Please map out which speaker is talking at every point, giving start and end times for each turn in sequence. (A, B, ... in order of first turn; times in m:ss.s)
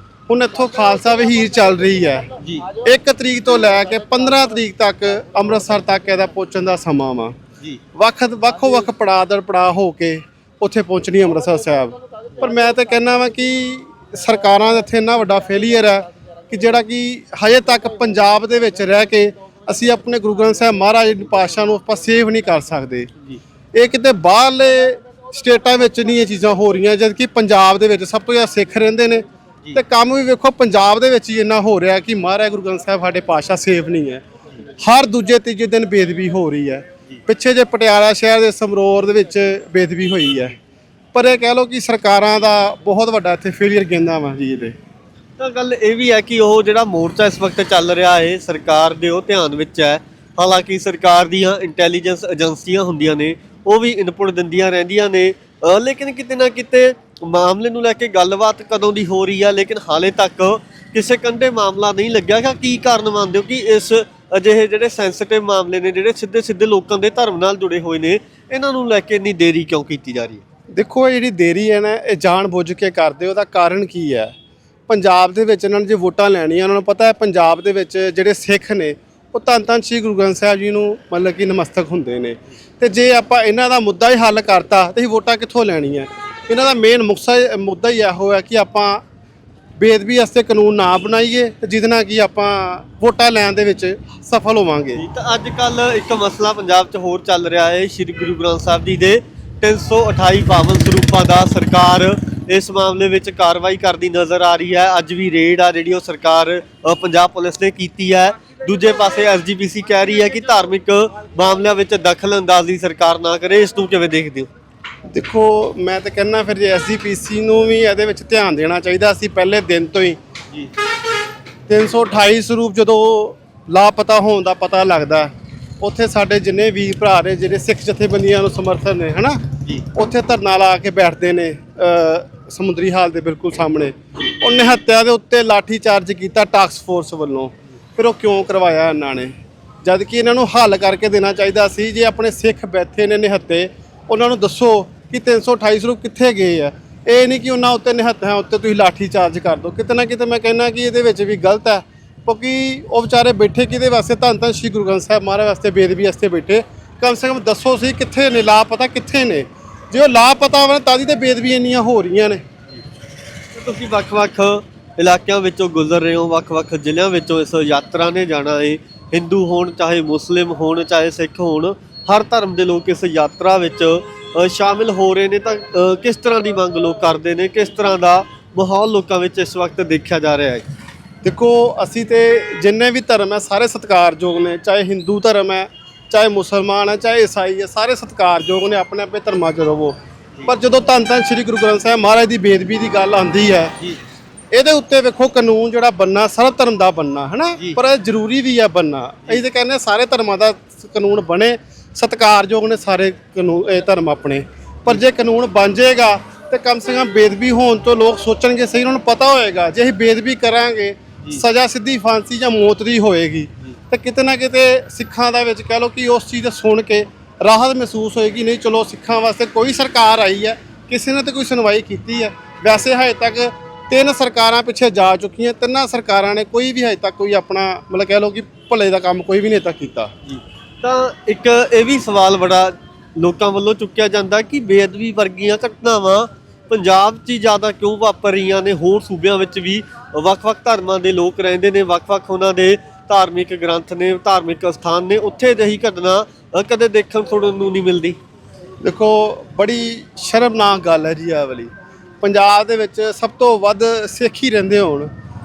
0:00.3-0:07.4 A
0:02.4-0:02.7 B
0:07.9-0:23.1 A
0:23.7-0:34.2 A
0:34.8-0:40.6 A
0:41.1-0:44.7 A
0:45.4-1:10.4 B
1:10.7-1:14.3 A
1:14.9-1:29.0 A
1:29.8-1:35.0 A
1:35.0-1:54.5 B
1:55.1-2:00.2 A
2:01.7-2:42.4 A
2:43.5-3:00.6 B
3:01.2-3:10.0 A
3:10.5-3:13.8 A
3:14.5-3:50.1 A
3:50.2-4:08.2 B
4:08.8-4:15.1 A